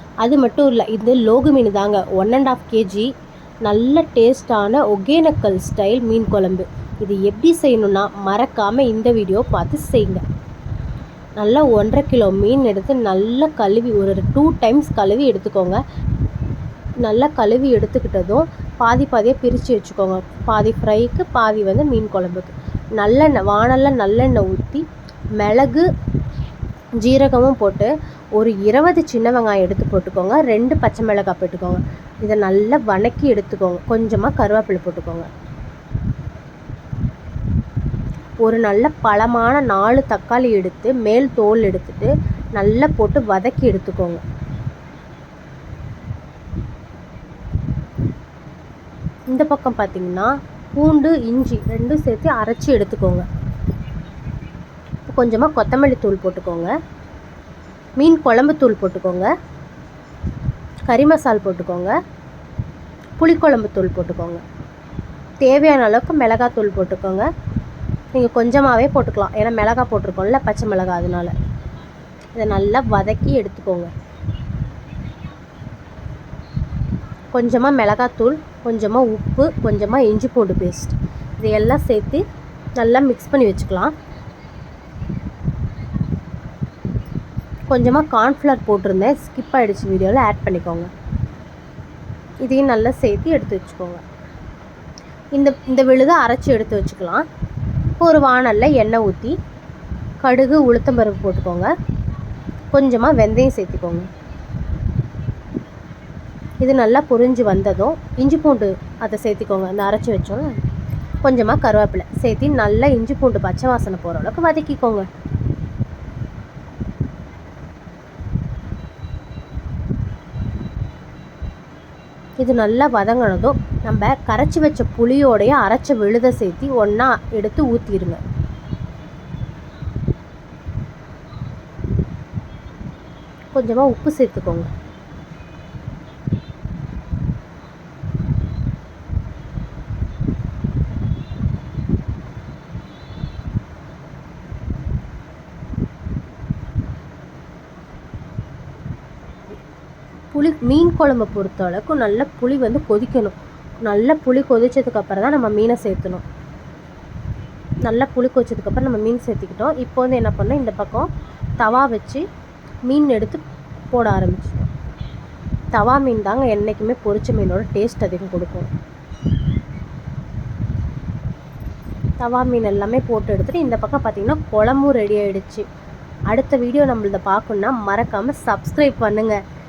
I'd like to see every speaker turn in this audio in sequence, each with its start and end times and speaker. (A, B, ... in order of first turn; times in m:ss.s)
0:00.2-0:03.1 A
0:03.6-0:10.2 A
0:11.4-0:15.8 A
0:17.0-0:24.9 A
0:25.4-0:25.9 A
0:27.0-0:35.3 A
0:38.4-0:44.2 A
0:49.3-0:53.3 A
0:55.1-0:56.7 A
0:58.0-0:59.3 A
1:00.9-1:02.0 A
1:03.2-1:04.4 A
1:05.4-1:07.3 A
1:08.1-1:11.3 A
1:12.4-1:13.9 A
1:17.3-1:22.2 A
1:22.8-1:23.9 A
1:27.7-1:30.9 A
1:32.4-1:34.0 A
1:35.3-1:37.3 A
1:38.0-1:39.4 A
1:40.2-1:41.7 A
1:42.7-1:44.1 A
1:46.6-1:50.6 A
1:51.2-1:55.1 A
2:02.4-2:08.2 A
2:13.5-2:14.7 A
2:30.3-2:36.2 A
2:37.8-2:42.2 A
2:42.9-2:44.7 A
2:45.7-2:48.7 A
2:52.2-2:55.6 A
2:56.3-2:59.4 A